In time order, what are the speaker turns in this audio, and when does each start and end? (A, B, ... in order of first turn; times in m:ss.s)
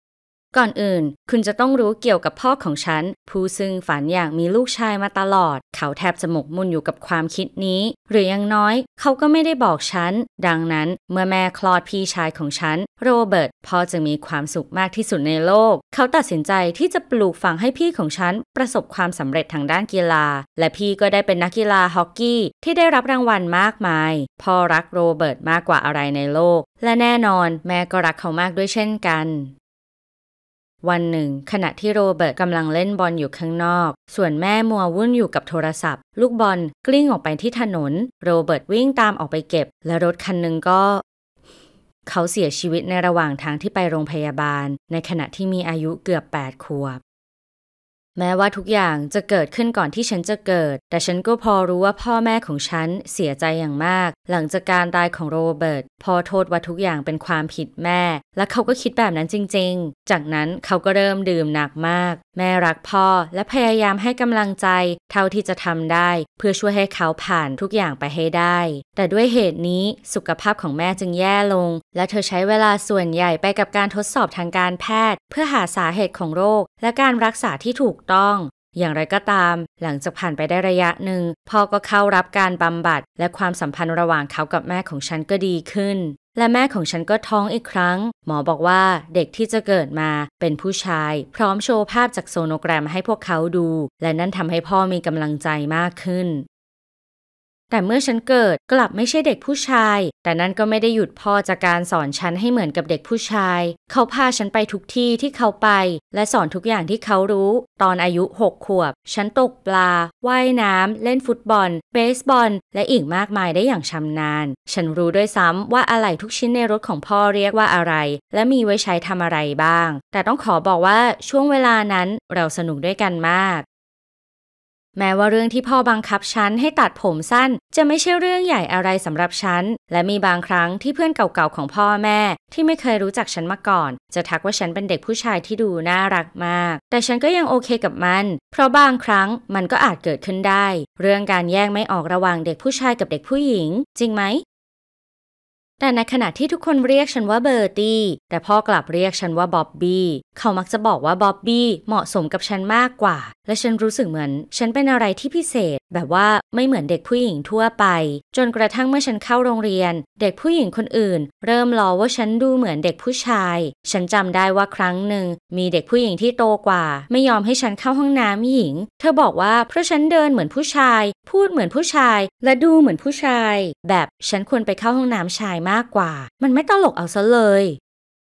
0:00.5-0:29.5 A
0:30.8-0:41.0 A
0:42.1-0:47.0 A
0:48.2-1:36.4 A
1:37.7-2:03.6 A
2:05.0-2:24.4 A
2:25.8-2:57.8 A